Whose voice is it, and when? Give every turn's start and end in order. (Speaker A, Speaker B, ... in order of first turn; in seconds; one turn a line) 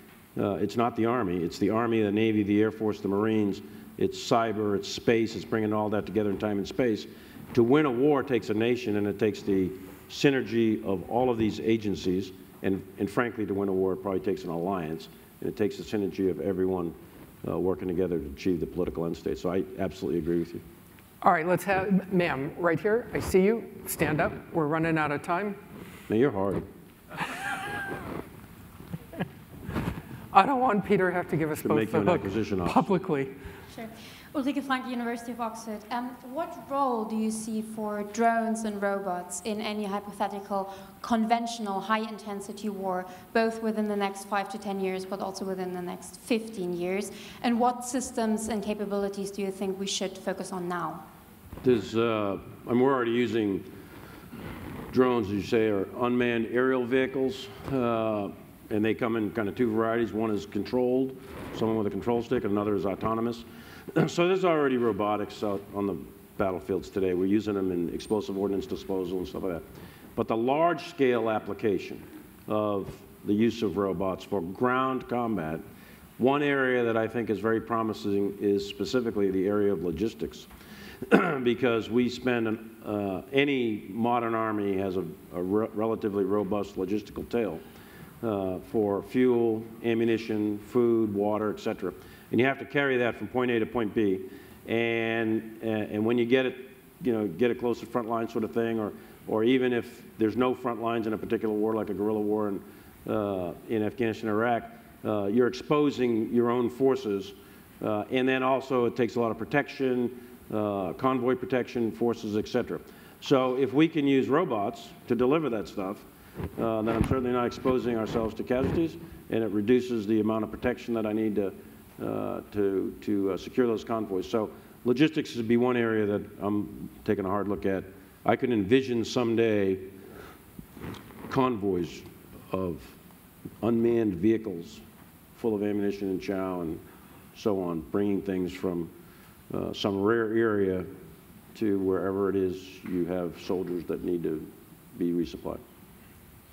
Speaker A: 0.4-20.6
Speaker B: 21.2-25.6
Speaker A: 26.1-26.6
Speaker B: 30.3-33.3
Speaker A: 31.6-33.0
Speaker C: 33.7-51.1
Speaker A: 51.6-53.7
Speaker A: 54.9-69.6
Speaker A: 70.2-75.6
Speaker A: 76.2-80.5
Speaker A: 81.0-87.6
Speaker A: 88.2-129.9
Speaker A: 131.3-133.0
Speaker A: 133.6-134.8
Speaker A: 135.3-136.8
Speaker A: 137.3-138.9
Speaker A: 139.5-140.9
Speaker A: 141.5-145.6